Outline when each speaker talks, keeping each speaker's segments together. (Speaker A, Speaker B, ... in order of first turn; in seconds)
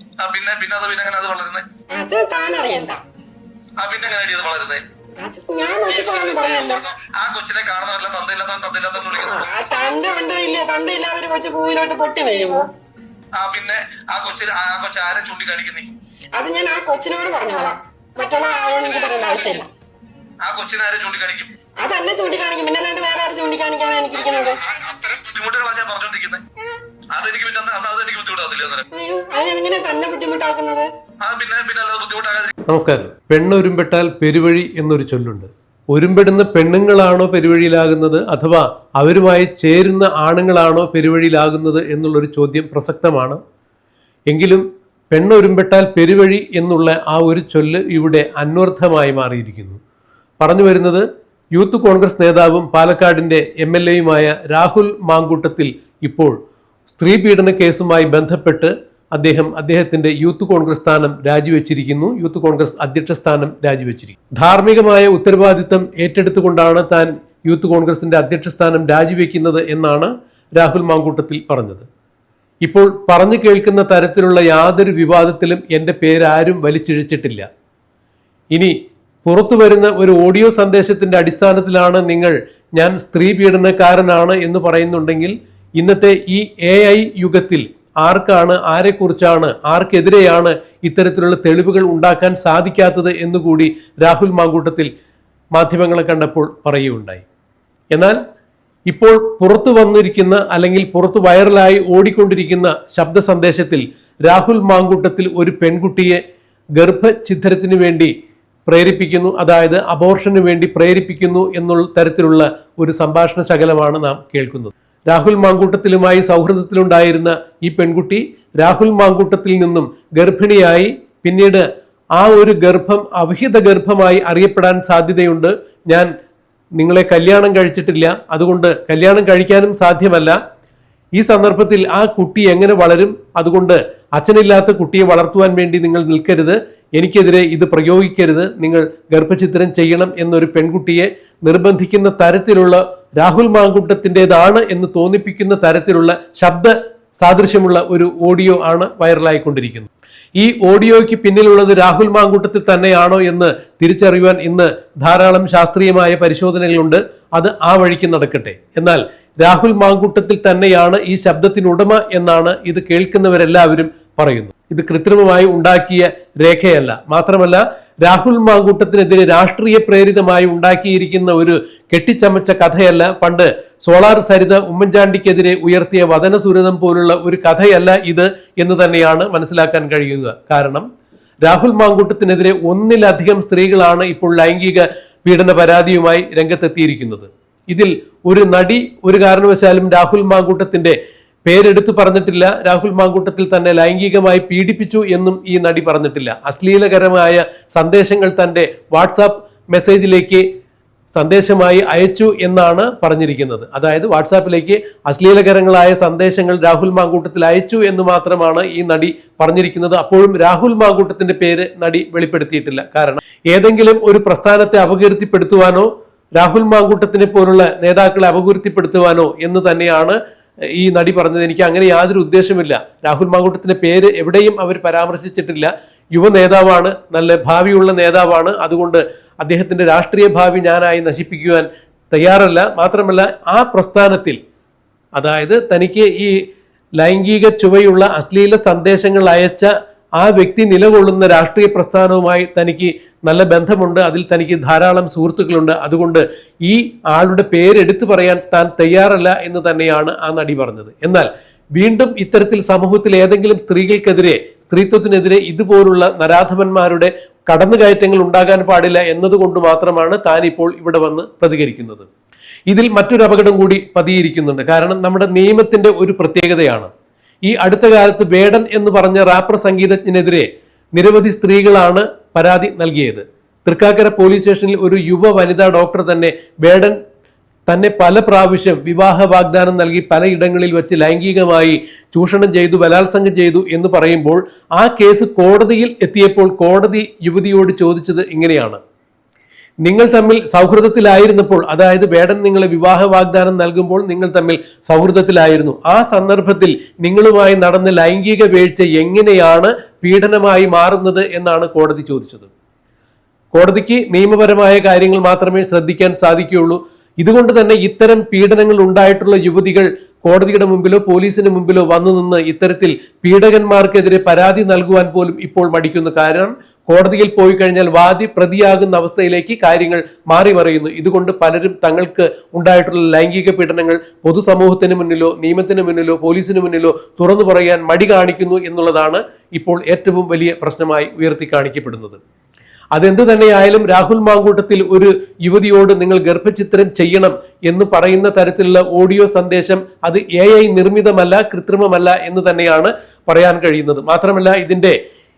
Speaker A: 0.2-1.6, 3.8-4.8, 7.0-9.5, 13.3-15.9, 20.4-21.5, 24.8-26.4, 27.1-28.8, 31.2-32.5
Speaker B: 1.9-3.0, 5.2-6.8, 9.2-12.7, 16.3-19.7, 21.8-24.6, 28.9-30.9
Speaker C: 32.7-43.4, 44.3-49.8, 50.4-56.4, 56.9-71.8, 72.6-77.5, 79.2-94.9, 95.5-97.2, 97.9-98.2, 98.9-106.2, 106.8-108.1, 108.7-121.6, 122.2-126.1, 126.8-130.4, 131.2-180.9, 181.4-200.4, 201.1-220.2, 220.7-234.4, 235.1-236.3, 237.0-262.1, 262.7-266.9, 267.4-277.0, 277.7-288.8, 289.8-302.5, 303.5-332.2, 332.9-345.0